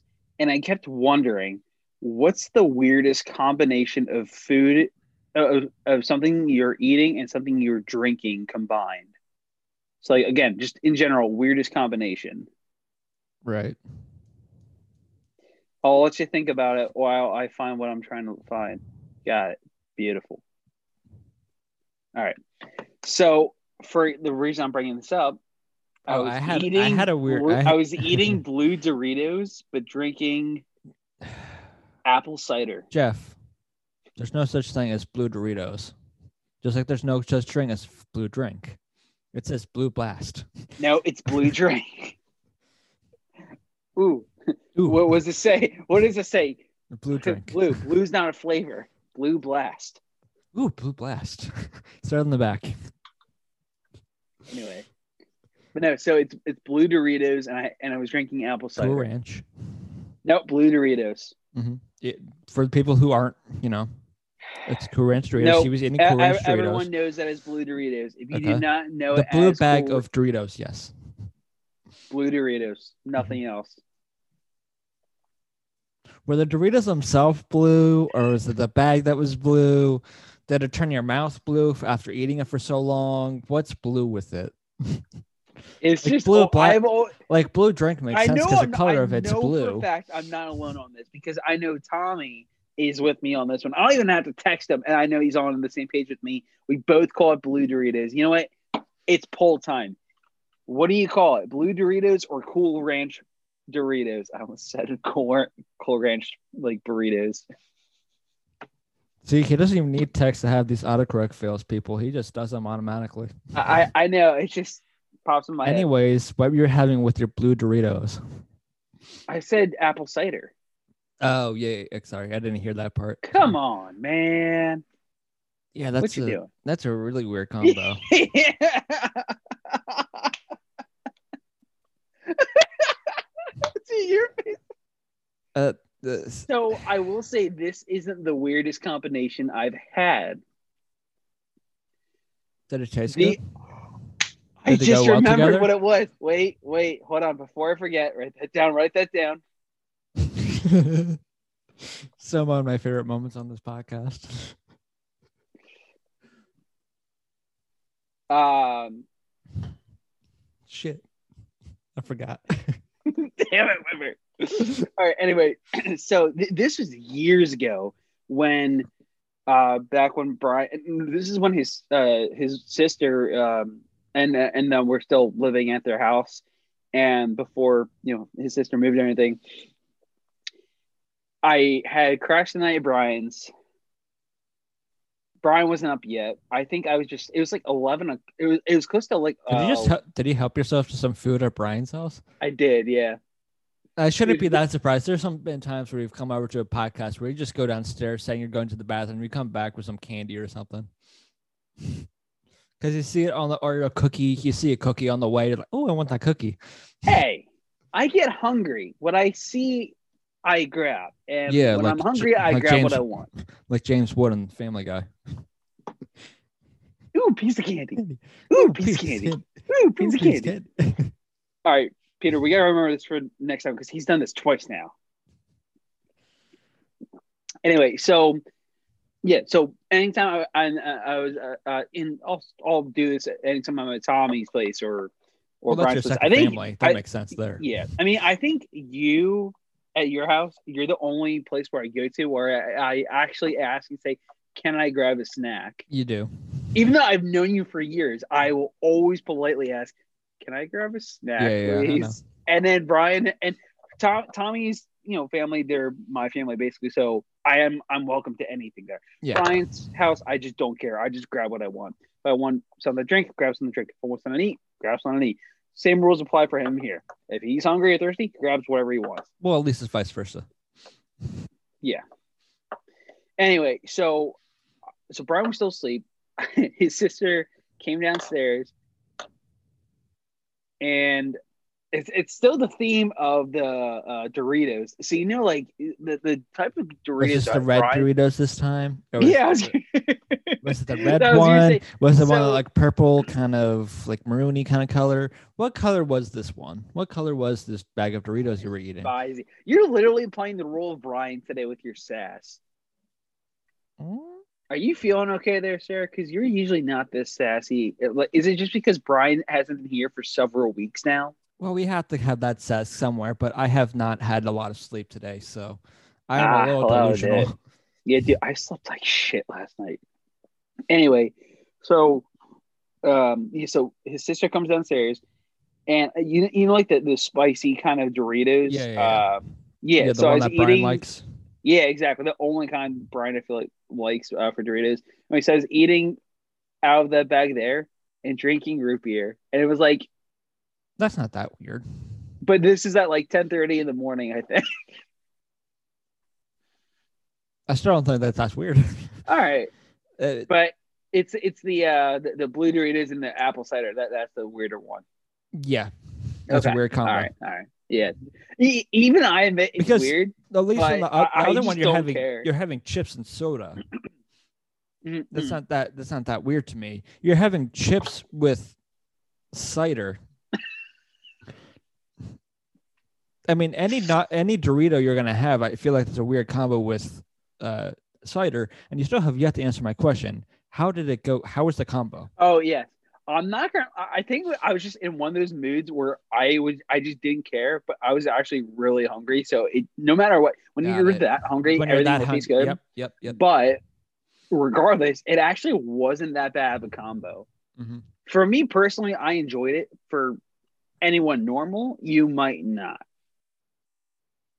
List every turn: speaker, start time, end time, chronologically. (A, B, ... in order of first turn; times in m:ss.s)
0:00.4-0:09.1 A
0:10.0-0:12.5 A
0:13.4-0:13.8 B
0:15.8-0:20.4 A
0:23.0-0:25.4 A
0:26.1-0:28.4 B
0:26.1-0:30.6 A
0:32.0-0:32.8 A
0:32.9-0:33.4 B
0:34.2-0:35.9 B
0:36.6-0:38.8 B
0:39.3-0:40.4 B
0:40.8-0:42.1 A
0:44.0-0:44.3 A
0:44.8-0:45.0 B
0:44.8-0:46.6 A
0:46.9-0:47.8 B
0:47.2-0:50.0 A
0:50.5-0:52.7 B
0:54.5-0:54.8 A
0:55.7-0:59.0 A
0:58.8-0:59.4 B
1:00.2-1:01.3 A
1:01.5-1:03.9 B
1:04.6-1:06.9 B
1:05.4-1:10.0 A
1:08.3-1:10.9 B
1:12.1-1:13.8 A
1:16.2-1:25.0 B
1:25.8-1:27.2 A
1:26.0-1:29.9 B
1:28.1-1:38.5 A
1:39.1-1:40.0 A
1:40.7-1:47.4 A
1:49.2-1:53.3 B
1:53.5-1:55.9 A
1:55.6-1:58.2 B
1:59.3-2:00.5 A
2:01.2-2:03.5 B
2:03.2-2:04.8 A
2:05.7-2:08.0 B
2:06.0-2:06.5 A
2:07.6-2:10.3 A
2:12.3-2:12.9 A
2:13.6-2:14.6 A
2:15.5-2:16.5 B
2:16.5-2:20.4 A
2:22.7-2:23.4 B
2:23.1-2:23.4 A
2:24.6-2:29.4 A
2:24.7-2:25.7 B
2:30.4-2:31.2 B
2:32.2-2:34.6 B
2:38.3-2:39.0 A
2:40.7-2:41.0 B
2:42.0-2:42.8 B
2:43.1-2:48.9 A
2:49.5-2:56.4 A
2:56.9-2:59.4 A
3:01.4-3:03.5 A
3:05.4-3:09.9 A
3:09.5-3:12.2 B
3:12.4-3:13.2 A
3:14.0-3:20.9 B
3:14.2-3:14.6 A
3:22.8-3:26.6 B
3:27.0-3:33.3 A
3:31.5-3:35.0 B
3:37.1-3:38.0 A
3:38.0-3:41.1 B
3:38.5-3:40.5 A
3:41.6-3:44.9 A
3:47.6-3:48.4 A
3:49.2-3:55.1 A
3:55.6-3:57.0 A
3:55.7-3:57.6 B
3:57.6-4:05.8 A
4:05.9-4:06.3 B
4:06.7-4:29.3 A
4:11.4-4:12.2 B
4:19.2-4:19.6 B
4:29.4-4:30.4 B
4:33.4-4:34.4 A
4:35.1-4:38.7 A
4:40.8-4:41.4 A
4:41.9-4:48.1 A
4:47.2-4:49.7 B
4:49.2-4:52.6 A
4:50.6-4:59.1 B
4:59.0-5:02.6 A
5:04.0-5:04.4 B
5:04.7-5:11.3 A
5:11.6-5:17.5 B
5:16.4-5:17.5 A
5:18.0-5:20.0 A
5:20.9-5:22.2 A
5:23.0-5:25.2 A
5:25.9-5:31.0 A
5:28.6-5:29.3 B
5:30.0-5:31.2 B
5:31.6-5:36.2 A
5:36.8-5:40.1 A
5:41.0-5:41.8 B
5:42.4-5:44.7 A
5:47.7-5:49.1 B
5:49.3-5:49.7 A
5:50.2-5:50.5 B
5:50.5-5:55.0 A
5:55.5-5:55.9 B
5:56.5-5:57.3 B
5:56.5-6:02.5 A
5:59.8-6:03.8 B
6:05.0-6:05.6 A
6:05.3-6:08.8 B
6:09.5-6:10.2 B
6:13.5-6:22.3 B
6:22.4-6:33.8 A
6:30.8-6:33.4 B
6:34.5-6:37.5 A
6:37.8-6:38.0 B
6:38.3-6:40.4 A
6:41.0-6:43.0 A